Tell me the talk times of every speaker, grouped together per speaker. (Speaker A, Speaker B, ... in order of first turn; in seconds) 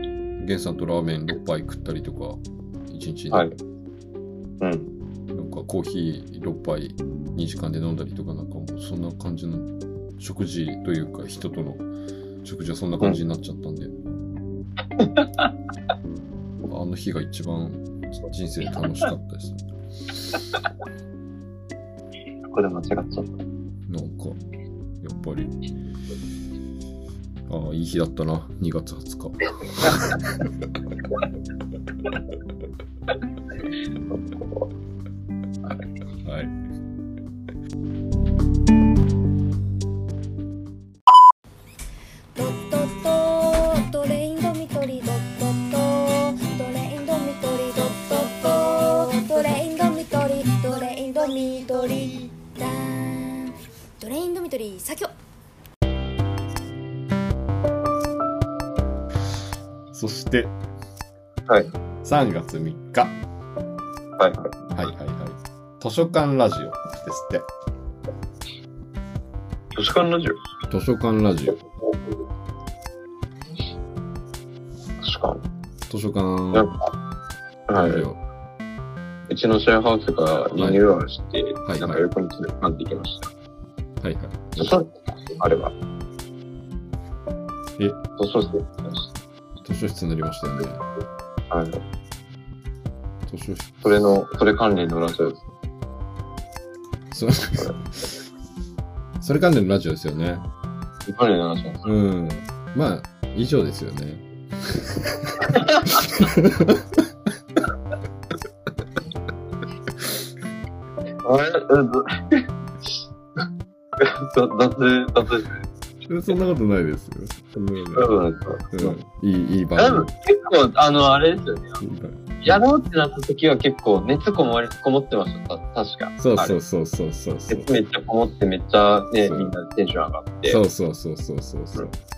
Speaker A: 0.4-3.5, 5.3-11.9, 12.4-13.9, 16.7-19.7, 23.9-24.4, 25.0-25.5, 27.5-30.2, 36.2-36.5, 59.9-60.5, 62.0-63.2, 64.7-67.5, 70.7-71.6, 75.9-76.7, 77.7-78.2, 80.5-80.8, 81.6-82.0, 84.0-84.7, 89.6-90.8, 93.3-93.9, 97.1-97.7, 99.2-100.4, 101.8-107.0, 116.1-118.1, 118.7-120.1, 121.8-122.6, 126.2-127.7, 129.2-129.5, 130.4-131.9
Speaker B: 3.3-3.5, 4.6-4.9, 22.5-23.4, 34.1-34.7, 64.2-64.5, 69.7-70.4, 75.0-75.4, 76.5-76.8, 77.7-78.0, 79.3-83.3, 84.6-85.7, 88.2-89.1, 91.5-91.8, 93.8-95.5, 101.1-101.9, 111.2-113.0, 114.0-115.6, 118.0-119.0, 119.8-121.8, 122.4-126.6, 127.5-130.6
Speaker C: 42.4-55.1